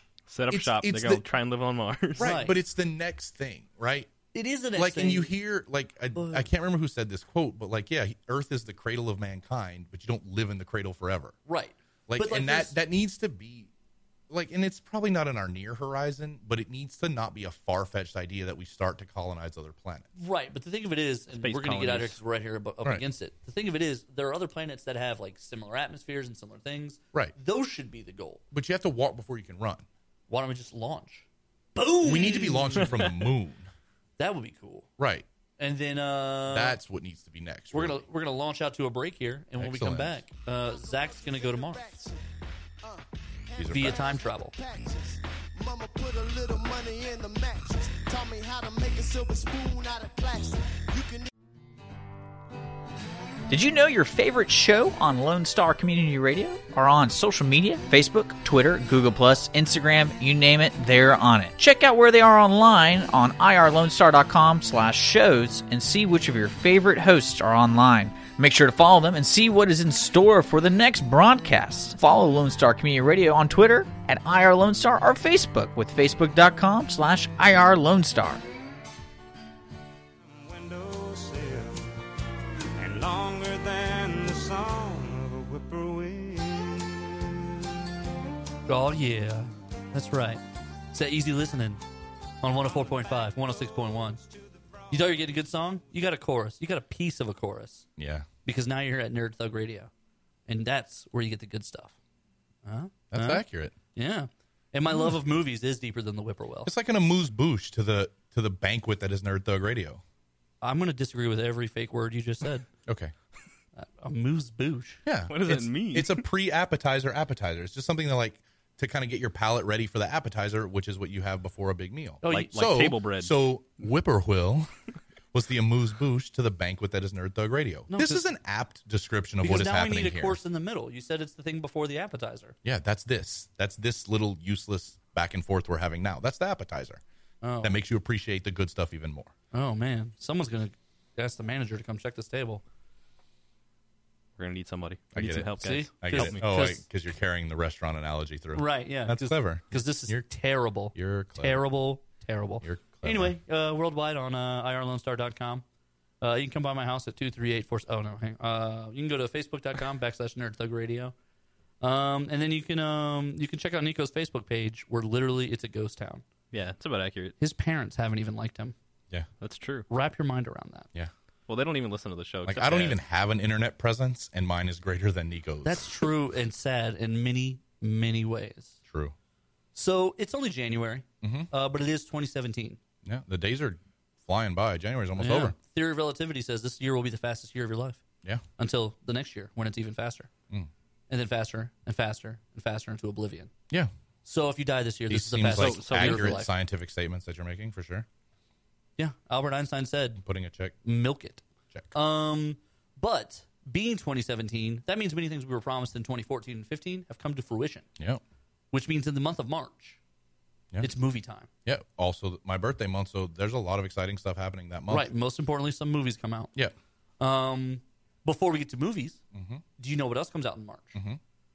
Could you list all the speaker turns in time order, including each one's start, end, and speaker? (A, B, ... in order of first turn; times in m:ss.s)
0:00.3-0:02.3 A
0:00.5-0:01.2 B
0:02.2-0:04.1 B
0:02.2-0:02.6 C
0:04.3-0:05.3 C
0:04.7-0:11.4 B
0:06.1-0:06.5 C
0:11.5-0:12.8 C
0:12.1-0:13.7 B
0:14.3-0:20.1 B
0:20.2-0:28.4 C
0:21.3-0:22.2 A
0:28.5-0:29.9 B
0:30.3-0:33.0 C
0:32.0-0:33.7 B
0:34.2-0:34.9 C
0:35.0-0:35.3 B
0:35.6-0:36.8 C
0:36.5-0:38.0 B
0:37.7-0:41.9 C
0:39.6-0:40.2 B
0:40.6-0:42.2 D
0:42.8-0:51.3 D
0:43.6-0:44.0 B
0:43.7-0:44.5 C
0:53.5-1:18.4 E
1:20.2-1:22.0 F
1:22.8-1:27.5 F
1:28.7-1:30.4 C
1:30.9-1:31.8 C
1:32.4-1:34.2 C
1:32.5-1:35.4 F
1:34.9-1:37.9 C
1:38.0-1:38.3 B
1:38.4-1:39.9 C
1:40.5-1:41.9 C
1:42.6-1:46.7 C
1:43.1-1:43.8 B
1:46.6-1:50.0 B
1:50.6-1:52.7 C
1:52.9-1:53.1 B
1:53.8-1:55.0 C
1:55.1-2:04.7 B
1:55.3-1:56.2 A
2:02.2-2:02.6 C
2:02.3-2:03.4 A
2:05.3-2:10.4 B
2:07.9-2:08.2 C
2:09.4-2:12.6 C
2:12.6-2:17.0 B
2:17.4-2:17.8 C
2:17.6-2:19.3 B
2:19.5-2:22.6 C
2:24.4-2:26.4 A
2:25.1-2:30.2 B
2:25.6-2:26.8 C
2:28.5-2:35.6 C
2:30.9-2:31.6 B
2:32.6-2:33.4 B
2:36.2-2:41.1 C
2:41.8-2:46.2 C
2:46.5-2:47.4 A
2:47.4-2:48.8 C
2:49.4-2:49.9 A
2:49.9-2:50.9 C
2:51.5-2:53.0 A
2:52.5-2:55.9 B
2:55.6-2:58.8 C
2:58.9-2:59.2 B
2:59.8-3:02.8 C
3:01.2-3:01.5 B
3:03.0-3:05.6 B
3:05.2-3:08.0 C
3:08.6-3:10.3 C
3:11.1-3:13.5 C
3:14.2-3:16.5 C
3:15.1-3:18.1 B
3:15.5-3:16.4 A
3:19.0-3:20.2 C
3:20.2-3:20.8 B
3:20.8-3:27.9 C
3:28.7-3:30.0 C
3:30.8-3:31.5 C
3:31.7-3:35.1 B
3:34.9-3:36.5 C
3:37.2-3:39.2 C
3:39.3-3:39.6 B
3:39.8-3:41.0 C
3:41.0-3:41.2 B